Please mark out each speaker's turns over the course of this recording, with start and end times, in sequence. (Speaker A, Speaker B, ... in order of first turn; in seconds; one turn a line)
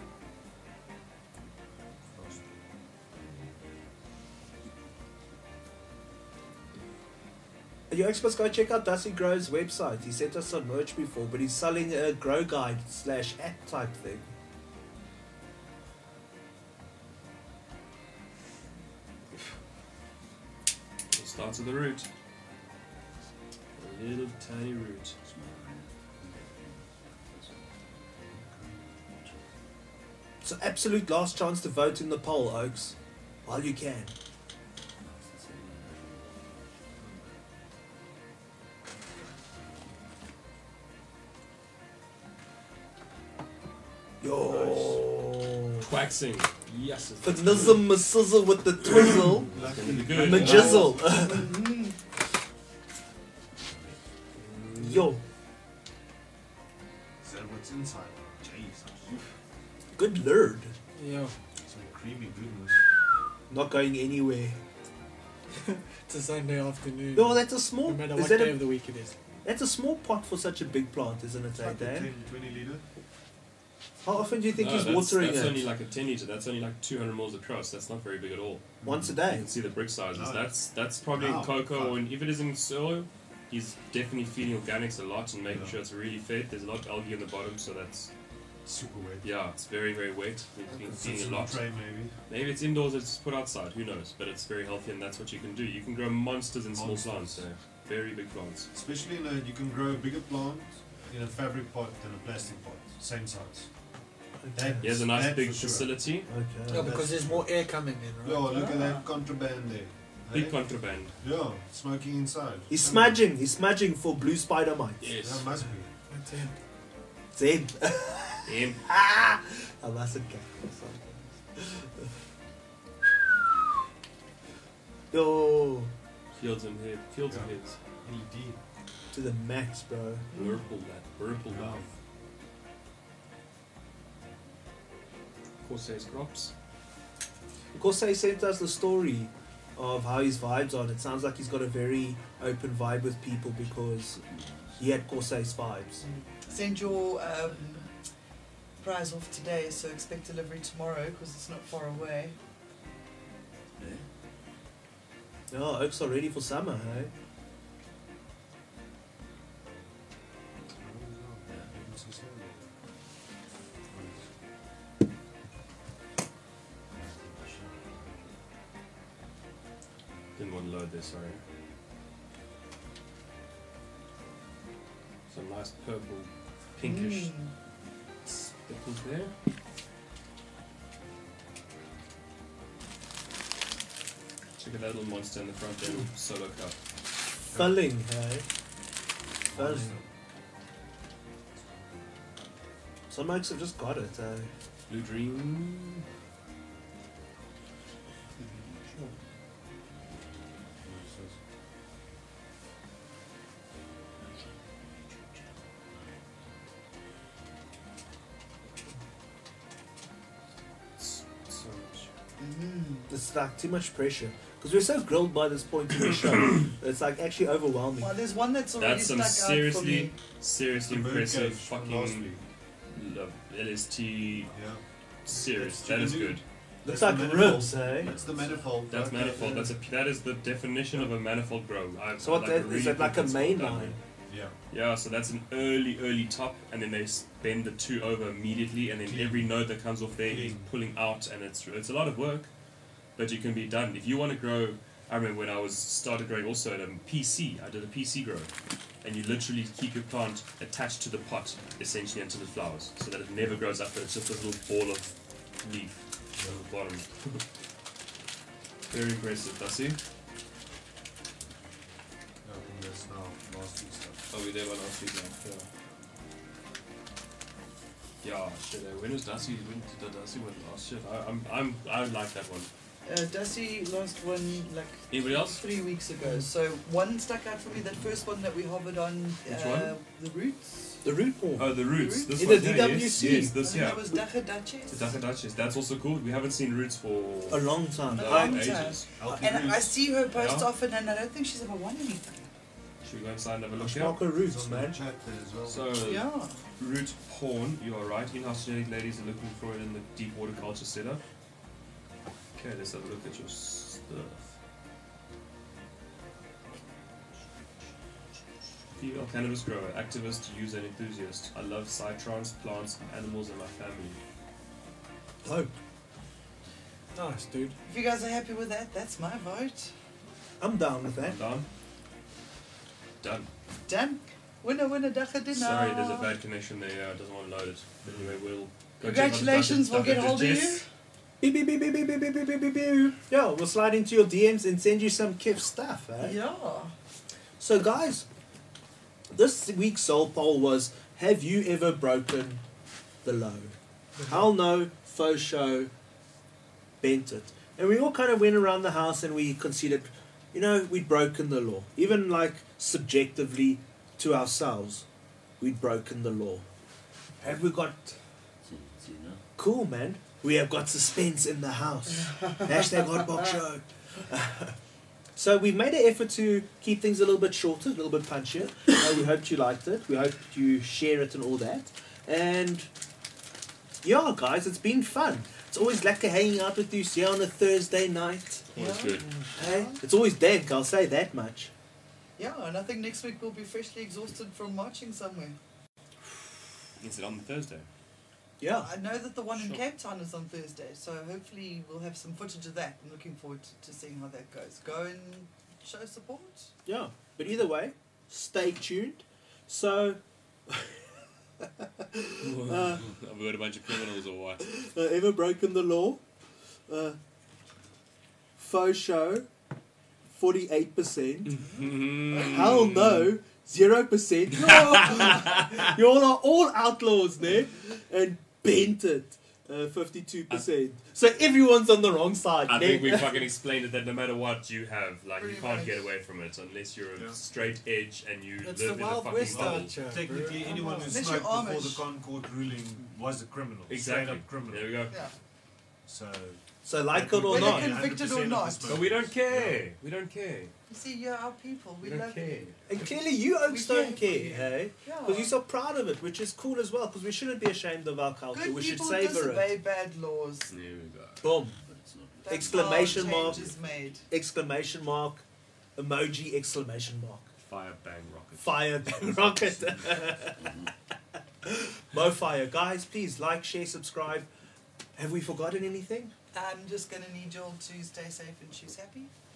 Speaker A: 2.1-2.6
Speaker B: 7.9-14.3
Speaker C: 21.1-22.1
Speaker C: 23.8-25.2
Speaker D: 25.2-28.0
Speaker A: 28.3-28.8
Speaker D: 29.1-29.4
Speaker B: 30.4-33.0
Speaker B: 33.5-34.1
Speaker D: 35.0-37.4
Speaker B: 44.2-45.9
Speaker C: 44.5-45.0
Speaker C: 45.8-47.9
Speaker B: 47.2-49.5
Speaker C: 49.0-51.0
Speaker A: 49.5-51.2
Speaker B: 50.2-51.6
Speaker E: 51.2-52.0
Speaker D: 53.6-54.0
Speaker C: 54.4-55.1
Speaker B: 54.8-55.2
Speaker A: 57.2-59.3
Speaker B: 60.0-60.7
Speaker F: 61.0-61.3
Speaker A: 61.7-62.8
Speaker B: 63.5-64.6
Speaker F: 65.6-69.1
Speaker B: 67.2-68.6
Speaker B: 69.4-72.1
Speaker A: 71.6-72.8
Speaker B: 74.0-75.7
Speaker C: 74.5-78.7
Speaker A: 78.8-79.2
Speaker B: 78.8-79.5
Speaker C: 79.3-88.1
Speaker A: 80.1-82.0
Speaker A: 85.5-85.8
Speaker A: 88.7-89.3
Speaker C: 89.2-91.7
Speaker A: 90.7-92.1
Speaker C: 92.3-98.7
Speaker A: 96.7-97.5
Speaker A: 98.7-103.7
Speaker B: 104.4-104.9
Speaker A: 104.6-106.0
Speaker C: 104.8-106.3
Speaker B: 106.3-107.0
Speaker F: 106.7-108.7
Speaker A: 106.7-107.5
Speaker A: 108.2-110.6
Speaker E: 108.5-109.1
Speaker C: 110.3-111.1
Speaker A: 111.2-113.2
Speaker B: 112.7-115.1
Speaker C: 115.0-115.5
Speaker A: 115.1-115.9
Speaker F: 116.1-116.5
Speaker B: 117.3-122.1
Speaker C: 118.5-118.8
Speaker B: 125.1-125.9
Speaker C: 126.4-127.8
Speaker A: 127.2-128.6
Speaker B: 129.1-130.3
Speaker E: 130.3-130.6
Speaker C: 130.3-131.9
Speaker A: 131.5-131.9
Speaker C: 135.6-136.5
Speaker B: 137.7-144.2
Speaker D: 144.0-145.1
Speaker B: 144.8-146.0
Speaker E: 146.0-147.9
Speaker D: 146.4-147.9
Speaker E: 148.8-152.4
Speaker D: 153.8-154.1
Speaker B: 155.5-157.1
Speaker A: 160.8-162.7
Speaker D: 161.4-161.8
Speaker A: 163.9-164.2
Speaker D: 166.9-168.4
Speaker C: 170.4-171.4
Speaker C: 175.3-177.3
Speaker E: 176.8-177.5
Speaker C: 178.2-179.3
Speaker C: 184.6-186.8
Speaker A: 187.5-187.8
Speaker B: 187.5-188.4
Speaker A: 189.5-190.1
Speaker B: 189.6-190.0
Speaker B: 193.1-194.5
Speaker C: 194.9-196.0
Speaker D: 198.5-199.2
Speaker A: 200.8-201.4
Speaker A: 211.0-212.1
Speaker E: 212.4-213.1
Speaker B: 213.1-218.2
Speaker E: 218.0-220.2
Speaker C: 218.8-222.3
Speaker A: 220.8-222.4
Speaker C: 222.9-224.5
Speaker A: 224.5-229.8
Speaker C: 225.2-226.4
Speaker B: 226.8-228.1
Speaker D: 228.0-228.6
Speaker C: 228.9-234.0
Speaker B: 232.2-234.0
Speaker A: 234.3-234.6
Speaker C: 234.7-242.5
Speaker A: 239.1-239.5
Speaker A: 240.2-240.7
Speaker C: 243.2-248.5
Speaker C: 249.0-257.4
Speaker A: 256.4-256.6
Speaker C: 258.9-260.0
Speaker A: 262.4-264.3
Speaker C: 264.3-265.7
Speaker C: 268.2-272.7
Speaker E: 273.1-281.0
Speaker C: 275.1-275.6
Speaker C: 279.4-280.0
Speaker B: 281.0-281.8
Speaker C: 281.6-284.2
Speaker E: 282.0-282.5
Speaker B: 282.4-283.6
Speaker E: 283.6-285.2
Speaker C: 284.9-289.1
Speaker B: 287.5-288.8
Speaker E: 288.1-292.5
Speaker A: 289.1-289.9
Speaker C: 290.3-290.7
Speaker C: 293.0-294.2
Speaker B: 293.8-295.0
Speaker A: 294.4-295.9
Speaker C: 295.7-296.3
Speaker E: 296.0-296.6
Speaker C: 296.8-301.2
Speaker C: 302.6-304.6
Speaker C: 309.0-314.2
Speaker B: 315.4-315.7
Speaker F: 317.1-317.8
Speaker E: 317.9-319.9
Speaker B: 320.6-321.4
Speaker C: 321.2-321.7
Speaker C: 323.2-323.5
Speaker E: 323.9-326.3
Speaker C: 325.5-330.8
Speaker A: 328.0-328.4
Speaker E: 329.0-330.8
Speaker B: 331.4-336.4
Speaker E: 336.2-336.9
Speaker B: 337.6-338.3
Speaker B: 339.3-342.6
Speaker B: 343.2-343.7
Speaker B: 344.2-345.9
Speaker B: 347.0-355.1
Speaker B: 355.6-356.6
Speaker B: 357.4-358.2
Speaker D: 358.6-359.4
Speaker B: 359.6-364.8
Speaker B: 365.4-372.9
Speaker B: 374.0-378.7
Speaker C: 378.7-379.3
Speaker E: 378.8-380.0
Speaker B: 379.5-381.7
Speaker E: 382.4-385.6
Speaker C: 387.0-387.9
Speaker B: 388.6-388.9
Speaker E: 388.8-396.7
Speaker C: 389.5-389.8
Speaker B: 396.9-403.1
Speaker C: 402.4-404.6
Speaker B: 404.6-406.2
Speaker B: 406.9-407.2
Speaker B: 408.6-409.5
Speaker B: 410.3-411.6
Speaker C: 411.5-413.3
Speaker B: 412.3-423.5
Speaker C: 414.6-415.9
Speaker C: 422.7-429.9
Speaker E: 425.4-426.1
Speaker A: 427.2-427.7
Speaker F: 428.6-430.8
Speaker A: 429.4-435.2
Speaker E: 430.6-432.1
Speaker C: 433.9-435.1
Speaker E: 435.1-435.4
Speaker A: 436.1-436.6
Speaker B: 436.9-438.1
Speaker A: 437.1-439.8
Speaker E: 437.5-439.1
Speaker C: 438.9-440.7
Speaker E: 440.9-443.1
Speaker C: 442.0-443.1
Speaker B: 442.9-449.7
Speaker E: 443.6-445.5
Speaker E: 448.5-450.7
Speaker C: 450.7-451.4
Speaker B: 451.4-451.8
Speaker D: 451.7-453.8
Speaker E: 452.4-454.2
Speaker B: 452.5-453.7
Speaker B: 454.3-455.4
Speaker B: 456.0-457.5
Speaker C: 457.6-458.9
Speaker B: 458.6-460.9
Speaker D: 459.6-460.9
Speaker B: 461.6-464.5
Speaker B: 465.2-466.3
Speaker E: 466.5-469.3